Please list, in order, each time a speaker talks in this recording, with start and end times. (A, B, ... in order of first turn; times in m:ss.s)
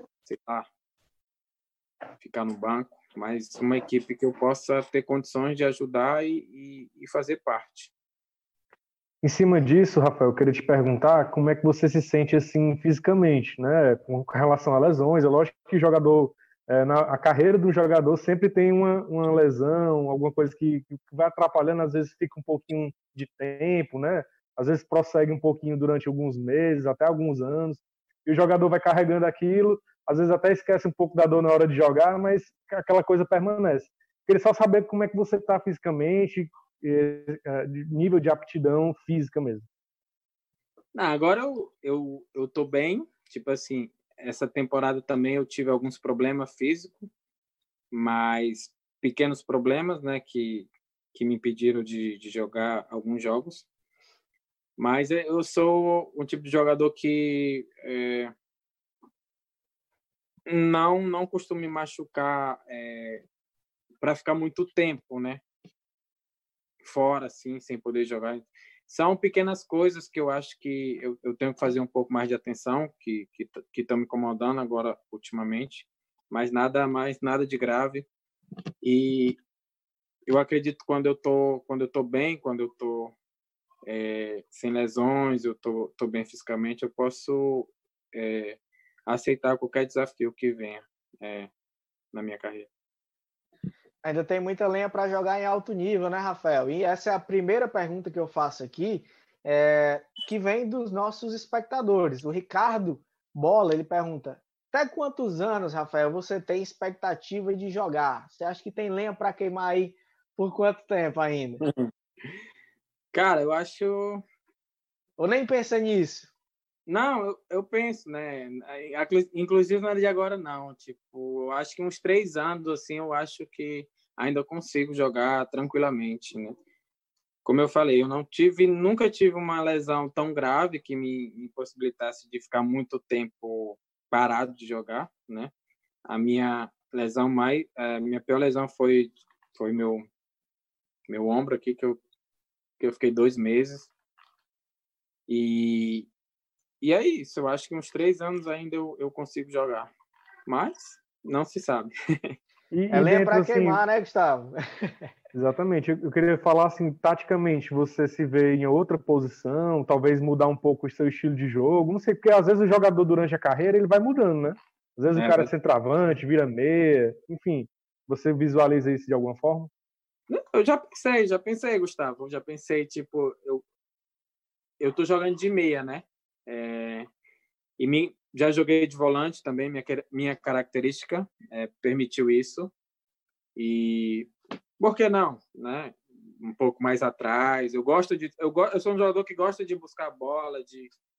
0:00.3-0:00.7 A
0:02.2-0:07.9 A
0:09.2-0:39.7 B
0:40.9-0:47.1 A
0:47.9-0:53.6 A
0:54.8-0:58.3 A
1:00.5-1:03.2 A
1:04.0-1:05.4 A
1:06.8-1:18.1 A
1:18.8-1:19.4 A
1:20.3-1:23.1 A
1:23.9-1:31.5 A
1:32.1-1:32.7 A
1:34.0-1:51.6 C
1:53.1-1:54.2 A
1:55.2-1:56.3 C
1:56.9-2:06.6 A
2:07.4-2:15.5 A
2:16.1-2:20.1 A
2:21.1-2:22.0 A
2:22.8-2:23.9 A
2:25.3-2:26.1 A
2:26.8-2:29.9 A
2:30.5-2:32.3 A
2:32.7-2:33.8 B
2:32.9-2:35.1 C
2:35.3-2:49.7 B
2:45.1-2:45.5 A
2:50.3-2:53.6 A
2:54.8-2:57.1 A
2:57.8-3:02.7 A
3:03.6-3:10.9 A